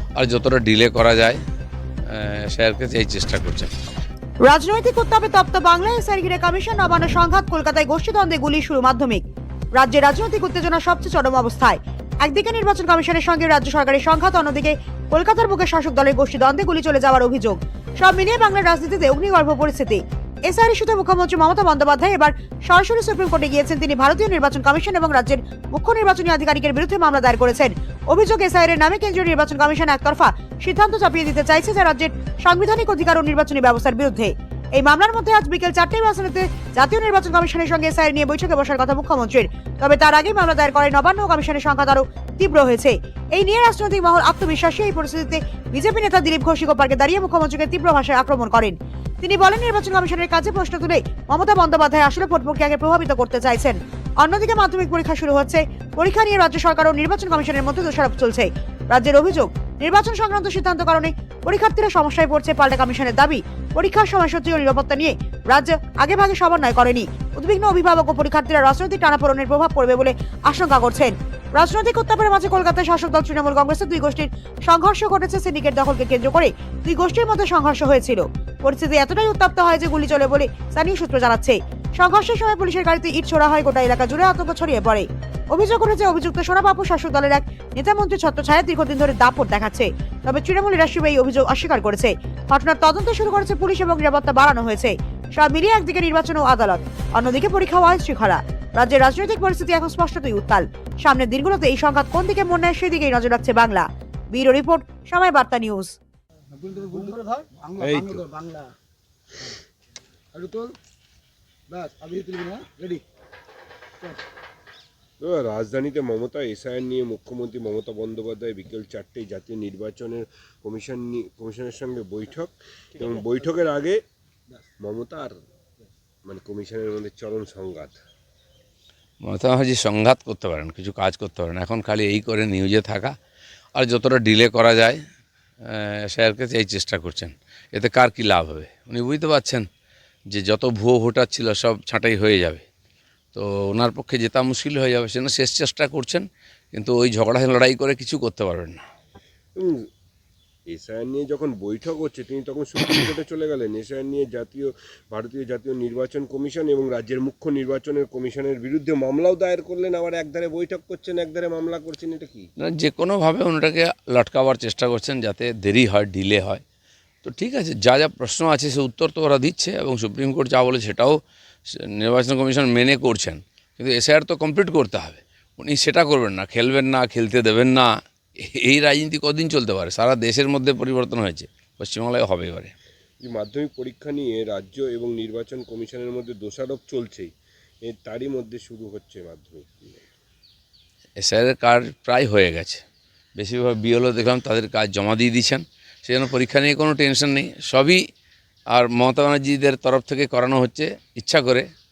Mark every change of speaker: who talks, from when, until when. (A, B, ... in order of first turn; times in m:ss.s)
0:00.2-0:01.4 A
0:02.1-0:03.7 A
0:04.4-0:09.2 B
0:09.8-1:46.0 B
1:46.5-1:48.7 C
1:47.8-1:48.3 D
1:50.3-1:50.8 C
1:51.7-1:53.0 C
1:55.2-2:04.0 D
2:04.8-2:05.4 D
2:06.2-2:08.0 D
2:09.2-2:13.2 A
2:13.8-2:15.0 A
2:15.6-2:19.7 A
2:20.3-2:22.6 A
2:23.3-2:28.8 A
2:29.6-2:29.9 D
2:30.7-2:42.5 D
2:42.6-2:46.6 A
2:47.2-2:57.9 A
2:58.4-3:02.7 A
3:03.2-3:10.0 D
3:11.2-3:12.8 A
3:13.4-3:18.0 A
3:18.7-3:21.7 A